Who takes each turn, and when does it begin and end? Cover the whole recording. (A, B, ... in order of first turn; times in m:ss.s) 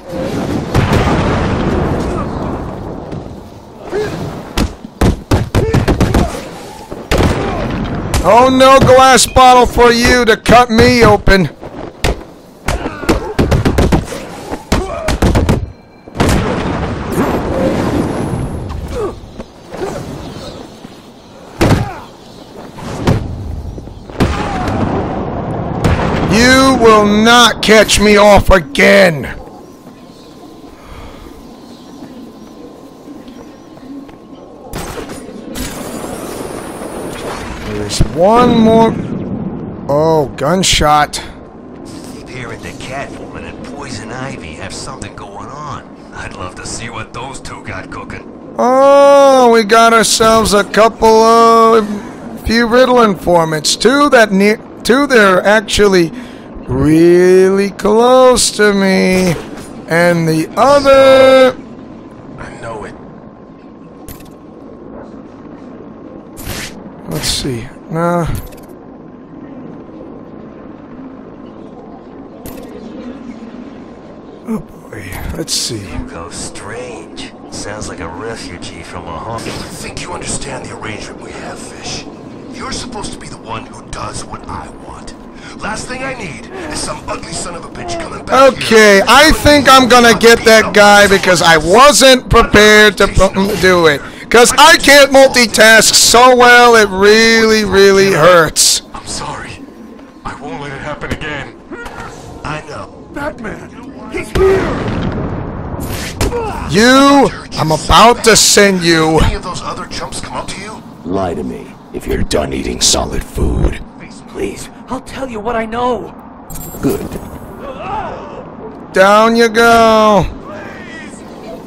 0:08.2-0:11.5 A
0:26.3-0:29.4 A
0:37.6-0:39.0 A
0:39.9-0:41.2 A
0:42.1-0:48.3 B
0:48.6-0:56.1 A
0:56.7-1:01.6 A
1:00.6-1:01.5 C
1:02.4-1:03.0 C
1:07.1-1:08.4 A
1:14.4-1:16.1 A
1:15.8-1:19.4 B
1:19.4-1:31.8 C
1:28.3-1:38.8 A
1:32.3-1:36.0 C
1:37.0-1:38.4 C
1:38.9-1:39.6 D
1:40.2-1:41.6 D
1:42.4-1:43.0 C
1:43.1-1:44.9 E
1:44.1-1:44.5 C
1:46.7-1:49.3 A
1:46.7-1:50.8 C
1:51.0-1:53.2 F
1:52.1-1:53.8 A
1:54.0-1:56.2 E
1:56.8-1:57.2 F
1:57.8-1:58.3 E
1:58.9-2:00.3 A
2:00.5-2:01.2 E